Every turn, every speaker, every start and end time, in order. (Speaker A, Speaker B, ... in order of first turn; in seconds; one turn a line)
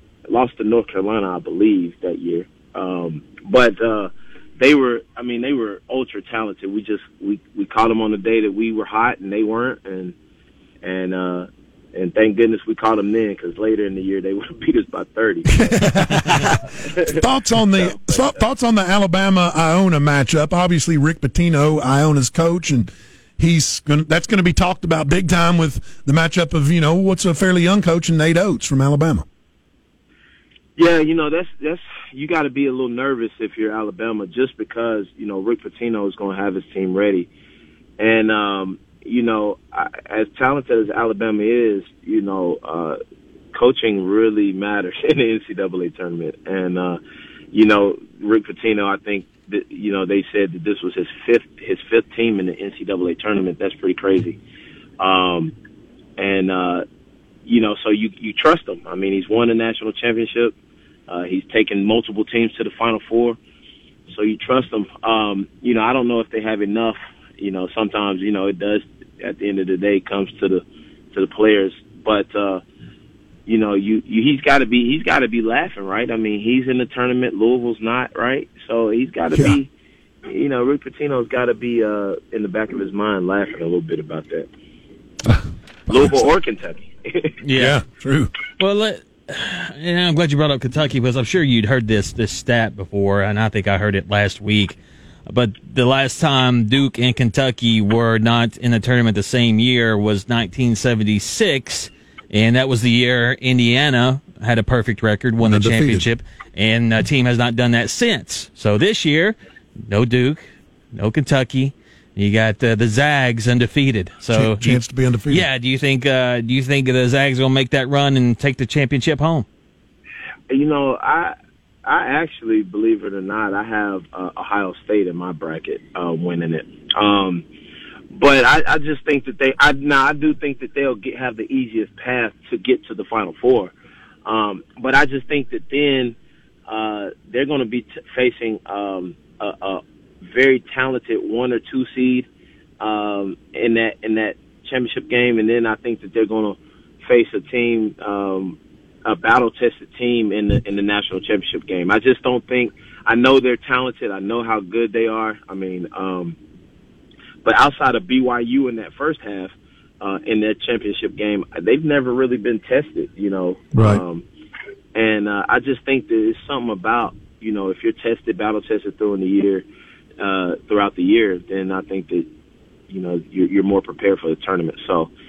Speaker A: 0.3-10.1
Speaker A: 10.8-17.2
Speaker B: 15.5-29.2
Speaker A: 17.7-18.4
Speaker A: 30.8-37.3
Speaker A: 38.0-43.0
Speaker A: 43.5-47.0
Speaker A: 47.5-54.4
Speaker A: 55.0-55.5
Speaker A: 56.2-56.8
Speaker A: 57.5-60.5
Speaker A: 61.1-63.4
Speaker A: 64.1-72.6
Speaker A: 73.5-79.7
Speaker A: 80.3-84.5
Speaker B: 85.2-86.2
Speaker A: 85.9-87.3
Speaker C: 87.4-87.8
Speaker B: 87.5-88.3
Speaker C: 88.6-119.4
Speaker B: 105.4-106.1
Speaker B: 114.3-115.5
Speaker A: 120.5-127.4
Speaker A: 128.1-133.7
Speaker A: 134.2-136.2
Speaker A: 136.7-142.3
Speaker A: 142.8-156.4
Speaker A: 157.4-164.2
Speaker B: 163.7-164.0
Speaker A: 164.9-169.7
Speaker A: 170.2-172.3
Speaker A: 172.9-175.1